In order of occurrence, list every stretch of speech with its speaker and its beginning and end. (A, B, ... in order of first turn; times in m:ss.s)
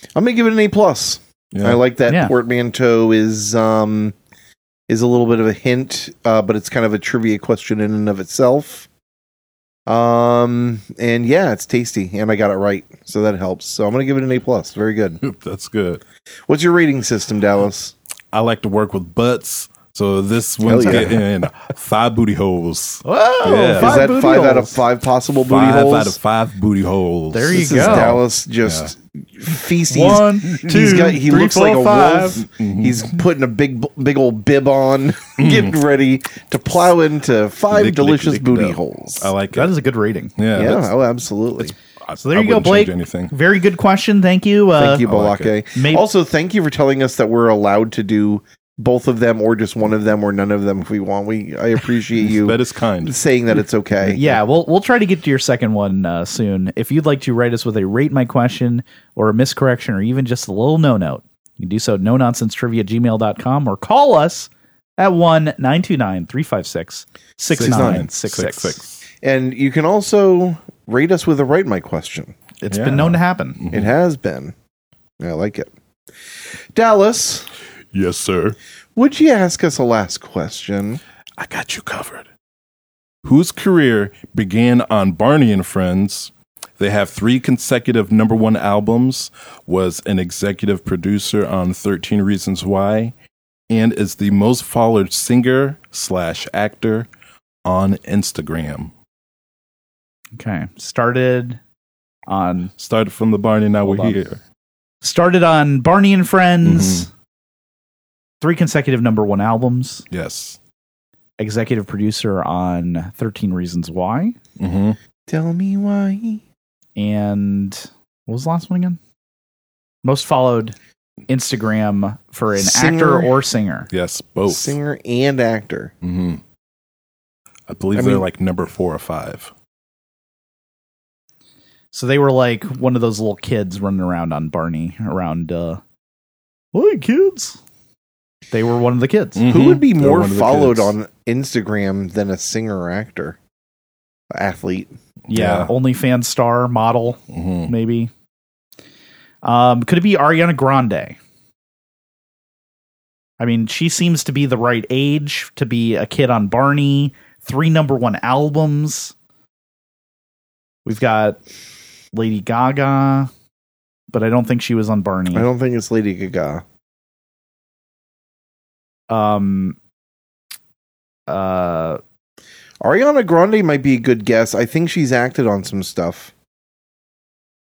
0:00.1-0:04.1 A
0:01.5-0:01.8 B
0:02.1-0:02.3 C
0:04.9-0:08.9 A
0:09.9-0:15.2 A
0:15.2-0:16.0 B
0:16.5-0:17.9 A
0:18.3-0:24.0 B
0:20.6-0:21.2 A
0:23.0-0:24.8 C
0:23.7-0:26.2 A
0:25.4-0:28.9 B
0:27.3-0:28.2 C
0:27.5-0:39.3 A
0:29.9-0:32.4 C
0:30.5-0:31.0 B
0:32.4-0:33.1 B
0:35.4-0:35.7 B
0:37.7-0:39.7 B
0:39.5-0:40.4 C
0:40.4-0:40.9 B
0:40.5-0:41.7 A
0:42.0-0:43.3 B
0:42.2-0:45.0 C
0:44.8-0:54.3 A
0:45.0-0:45.5 B
0:45.7-0:46.0 C
0:52.2-0:53.2 B
0:54.1-1:08.8 C
1:07.5-1:08.1 A
1:07.5-1:09.0 B
1:09.2-1:12.3 A
1:12.6-1:13.6 C
1:12.7-1:13.9 B
1:13.7-1:14.5 A
1:15.2-1:15.7 A
1:16.7-1:17.5 A
1:17.9-1:18.6 B
1:19.0-1:21.0 A
1:21.4-1:22.3 B
1:23.2-1:33.1 B
1:33.7-1:37.1 B
1:37.6-1:38.9 B
1:40.4-1:41.6 C
1:42.3-1:42.7 C
1:42.8-1:44.4 B
1:43.8-1:44.2 C
1:45.0-1:47.1 C
1:46.6-1:47.1 B
1:48.4-1:50.0 C
1:50.1-1:50.6 B
1:51.4-1:54.4 C
1:54.6-1:55.0 B
1:55.3-1:56.4 A
1:57.0-1:59.0 C
2:00.0-2:00.8 C
2:01.3-2:03.9 C
2:02.6-2:03.3 A
2:03.9-2:04.8 B
2:04.5-2:05.9 A
2:06.0-2:06.4 B
2:07.7-2:09.5 B
2:07.9-2:08.2 A
2:11.9-2:15.8 C
2:16.7-2:17.6 C
2:18.5-2:19.4 C
2:19.4-2:20.9 B
2:19.5-2:23.4 A
2:24.3-2:25.0 A
2:25.3-2:25.7 B
2:25.3-2:28.1 C
2:27.3-2:27.7 B
2:29.4-2:31.2 C
2:33.4-2:39.1 C
2:40.8-2:41.4 C
2:42.1-2:43.3 C
2:44.1-2:45.5 C
2:45.3-2:46.6 A
2:49.1-2:49.8 C
2:51.3-2:52.0 C
2:52.8-2:56.3 A